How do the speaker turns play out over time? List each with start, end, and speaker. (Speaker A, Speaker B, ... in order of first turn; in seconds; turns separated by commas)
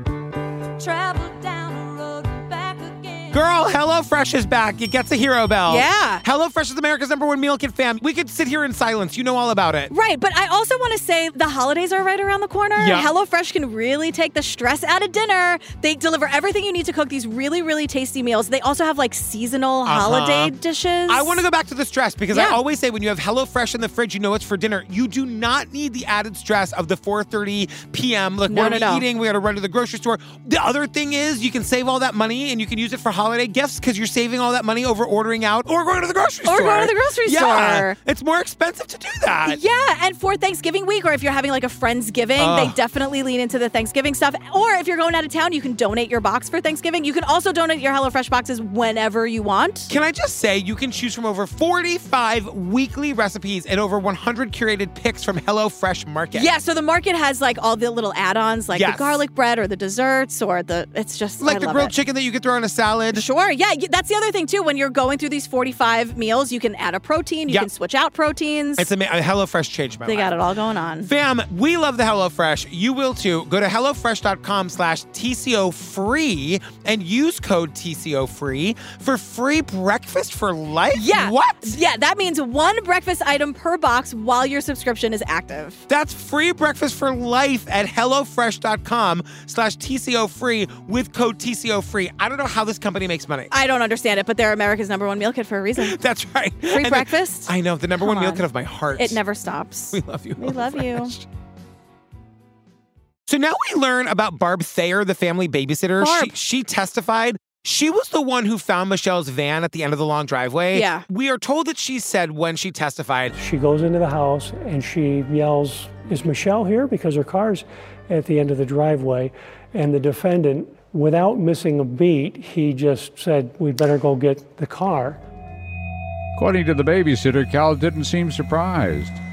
Speaker A: 0.8-3.4, Speaker B: 3.3-9.9, Speaker C: 5.7-6.2, Speaker C: 9.9-21.4, Speaker B: 12.8-13.1, Speaker B: 19.9-20.5, Speaker B: 21.1-39.6, Speaker C: 22.3-22.6, Speaker C: 28.5-29.1, Speaker C: 36.5-37.9, Speaker C: 39.5-49.9, Speaker B: 42.4-42.8, Speaker B: 49.9-56.5, Speaker C: 56.3-61.9, Speaker B: 58.7-59.2, Speaker B: 61.4-63.2, Speaker C: 63.1-68.9, Speaker B: 68.8-70.3, Speaker C: 70.1-71.1, Speaker B: 71.0-81.8, Speaker C: 80.9-85.8, Speaker B: 85.9-93.5, Speaker C: 93.5-96.0, Speaker B: 95.8-99.2, Speaker C: 96.7-98.4, Speaker C: 99.0-101.1, Speaker B: 99.9-101.2, Speaker B: 103.3-113.3, Speaker C: 106.0-106.3, Speaker C: 110.7-111.0, Speaker D: 113.4-125.2, Speaker E: 126.4-129.2